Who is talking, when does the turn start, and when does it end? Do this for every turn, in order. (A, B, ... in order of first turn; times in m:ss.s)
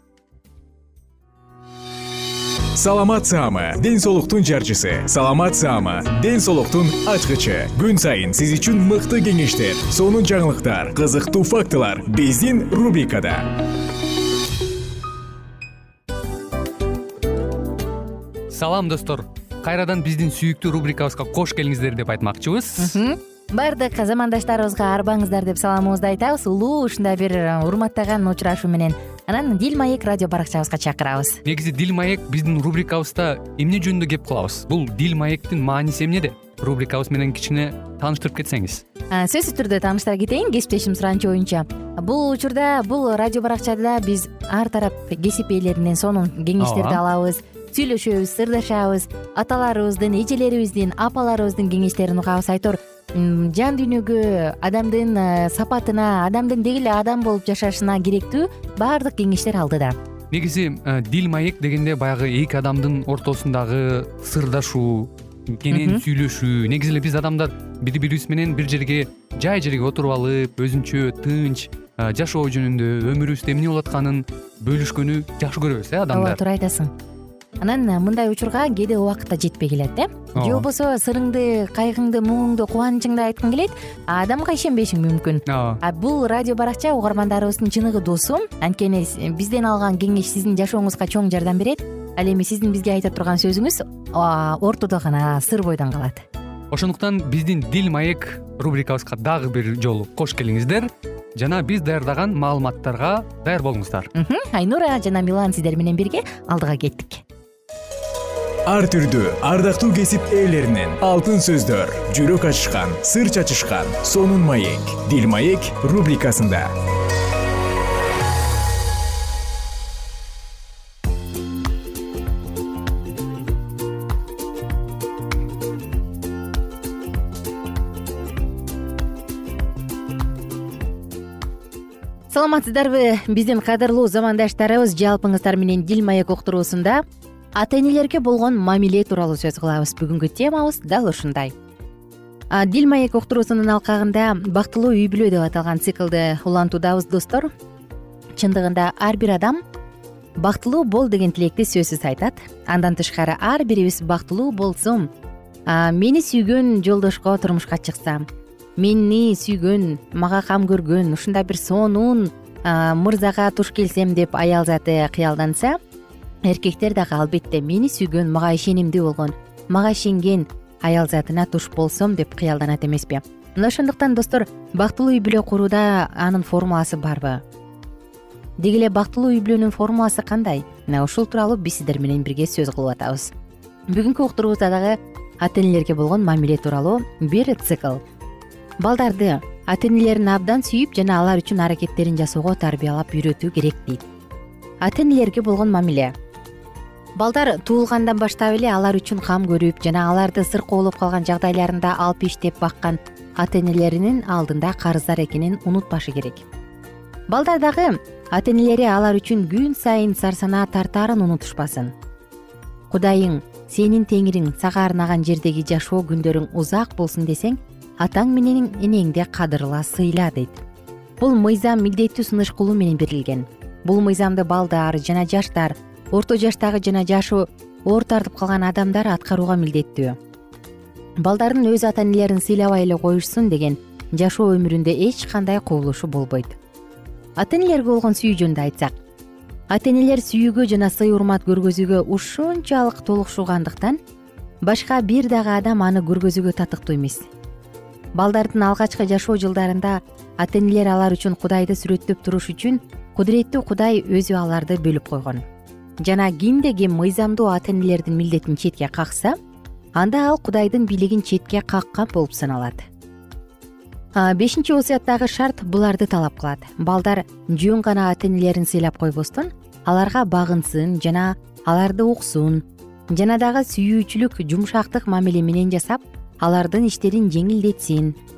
0:02.7-0:13.5 A
0:18.5-0:23.0 B
0:22.8-0:31.4 C
0:31.4-0:38.8 B
0:39.1-1:00.0 C
0:46.6-0:47.0 B
1:00.3-1:16.4 B
1:05.7-1:06.0 C
1:16.1-1:16.9 C
1:17.6-1:36.2 C
1:20.4-1:20.7 B
1:25.5-1:25.8 B
1:36.7-1:44.1 B
1:44.1-1:47.2 C
1:48.7-1:56.7 A
2:12.3-2:17.0 C
2:17.6-2:21.5 C
2:22.5-2:27.5 C
2:28.4-2:29.6 C
2:30.4-2:35.1 C
2:35.7-2:38.3 C
2:38.8-2:45.8 C
2:46.4-2:57.4 C
2:58.6-3:03.3 C
3:03.9-3:08.0 C
3:08.8-3:14.0 C
3:14.8-3:16.1 C
3:17.2-3:26.4 C
3:27.3-3:31.9 C
3:32.9-3:40.6 C
3:41.2-3:50.2 C
3:51.2-3:56.6 C
3:57.4-3:58.9 C
3:59.7-4:04.0 C
4:04.6-4:07.3 C
4:08.2-4:15.4 C
4:16.0-4:19.4 C
4:20.0-4:22.8 C
4:24.1-4:38.2 C